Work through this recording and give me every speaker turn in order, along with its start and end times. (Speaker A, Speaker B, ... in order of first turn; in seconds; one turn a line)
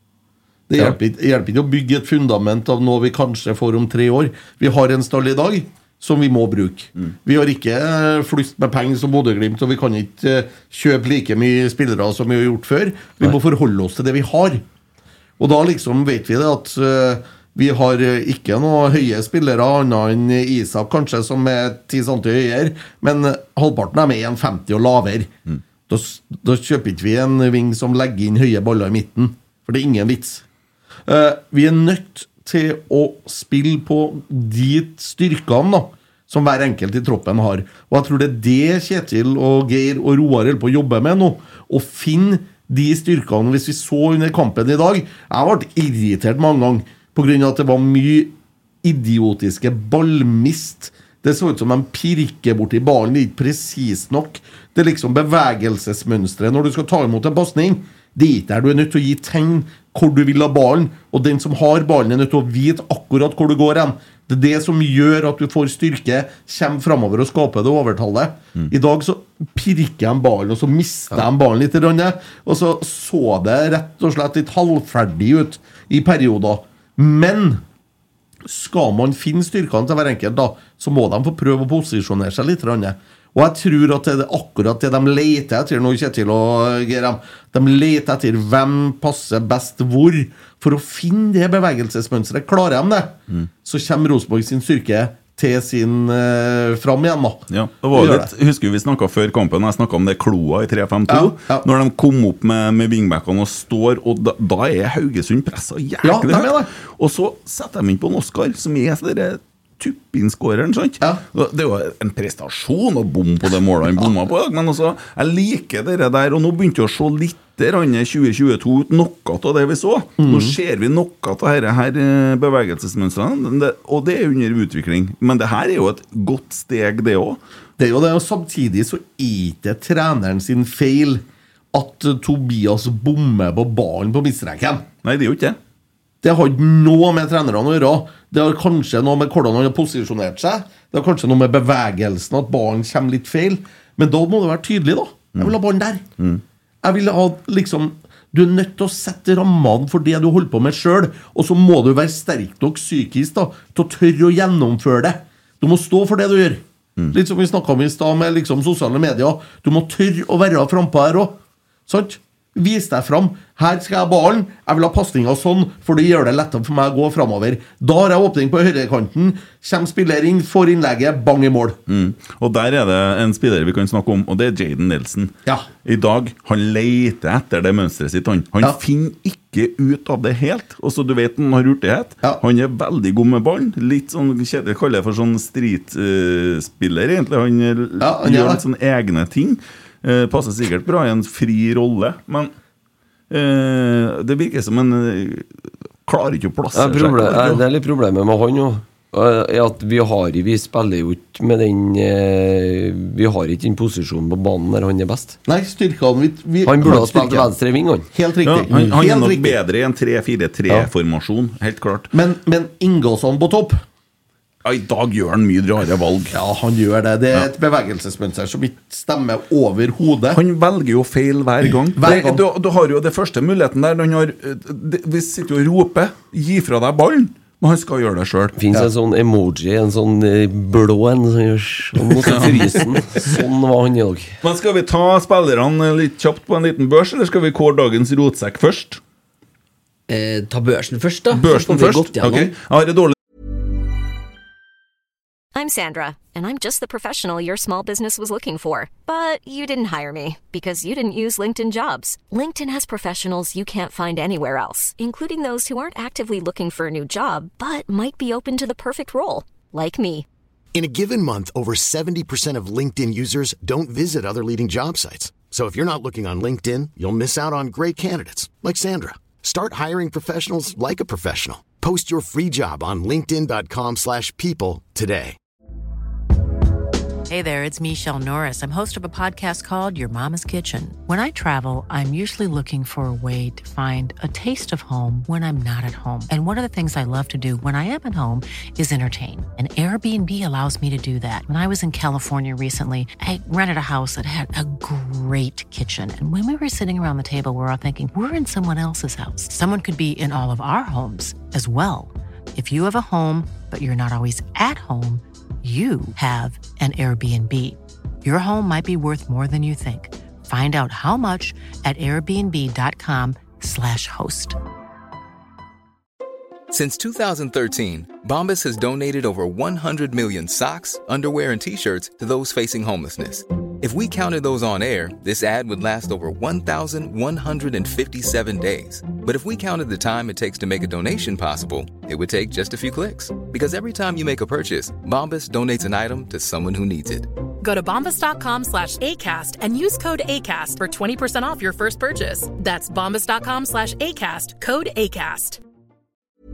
Speaker A: 0.7-14.6
Speaker A: 15.4-25.3
Speaker A: 25.9-30.4
Speaker A: 31.1-77.6
Speaker A: 78.5-98.3
Speaker B: 97.5-127.4
Speaker A: 101.1-101.7
Speaker A: 106.0-106.7
Speaker A: 120.2-120.6
Speaker A: 127.8-134.9
Speaker B: 135.0-135.6
Speaker A: 136.2-146.1
Speaker A: 146.8-171.8
Speaker B: 171.9-192.5
Speaker A: 188.0-188.6
Speaker B: 193.3-195.5
Speaker B: 196.1-197.6
Speaker C: 196.7-205.4
Speaker A: 205.5-207.5
Speaker C: 206.7-208.1
Speaker A: 208.1-209.6
Speaker B: 208.4-212.1
Speaker A: 212.1-213.8
Speaker B: 214.6-216.4
Speaker A: 216.3-220.4
Speaker B: 220.3-228.6
Speaker A: 221.9-222.4
Speaker C: 228.6-234.4
Speaker B: 232.2-232.8
Speaker B: 234.4-239.0
Speaker D: 240.1-242.5
Speaker B: 241.3-243.2
Speaker E: 245.6-260.3
Speaker F: 260.7-275.4
Speaker G: 277.3-314.6
Speaker H: 316.7-337.3
Speaker I: 337.6-345.6